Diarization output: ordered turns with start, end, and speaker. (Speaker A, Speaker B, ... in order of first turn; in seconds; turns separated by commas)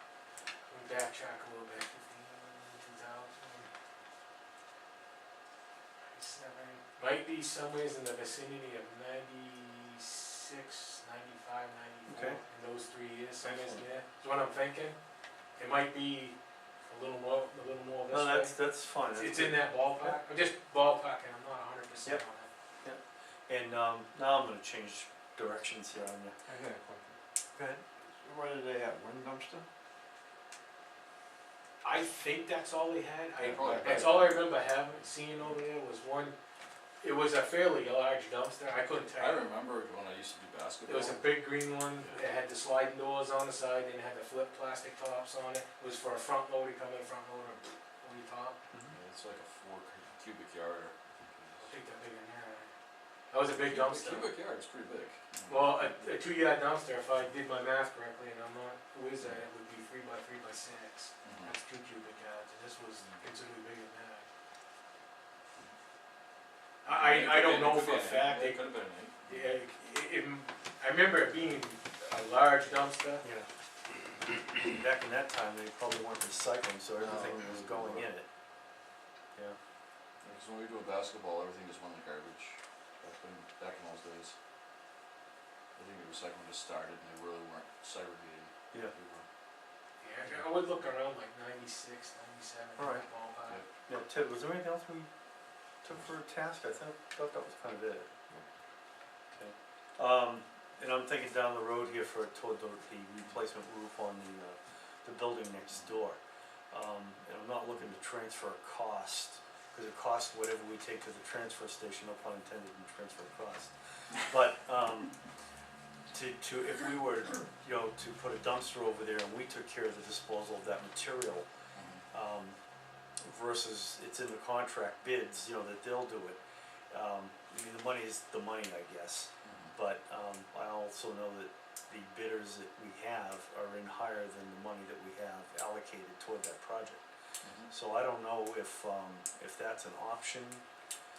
Speaker A: 0.7-3.7, Speaker A: 6.1-14.9, Speaker B: 12.1-12.4, Speaker B: 13.4-13.8, Speaker A: 15.6-22.5, Speaker B: 18.1-20.1, Speaker B: 22.8-26.4, Speaker C: 26.4-27.1, Speaker B: 27.5-27.8, Speaker C: 28.0-29.6, Speaker A: 31.8-36.4, Speaker D: 33.4-34.7, Speaker C: 33.6-34.0, Speaker A: 37.0-39.4, Speaker D: 39.1-41.3, Speaker A: 40.9-48.5, Speaker D: 48.9-51.7, Speaker A: 51.6-52.7, Speaker A: 53.3-54.3, Speaker D: 53.5-56.0, Speaker A: 55.5-64.2, Speaker D: 61.2-61.5, Speaker A: 66.8-68.6, Speaker D: 66.8-69.3, Speaker A: 69.2-73.2, Speaker B: 73.2-73.5, Speaker B: 74.5-78.3, Speaker D: 77.0-78.0, Speaker D: 80.2-84.3, Speaker D: 85.7-89.2, Speaker A: 90.0-93.6, Speaker B: 92.8-93.0, Speaker B: 93.9-95.1, Speaker B: 95.8-98.1, Speaker B: 99.3-106.2, Speaker D: 105.7-106.0, Speaker B: 106.7-113.7, Speaker D: 107.7-107.9, Speaker B: 114.3-115.1, Speaker B: 116.1-121.5, Speaker D: 121.7-122.0, Speaker B: 122.1-122.5, Speaker B: 123.2-126.4, Speaker B: 126.9-137.0, Speaker D: 129.4-129.7, Speaker D: 137.4-137.7, Speaker B: 137.7-140.6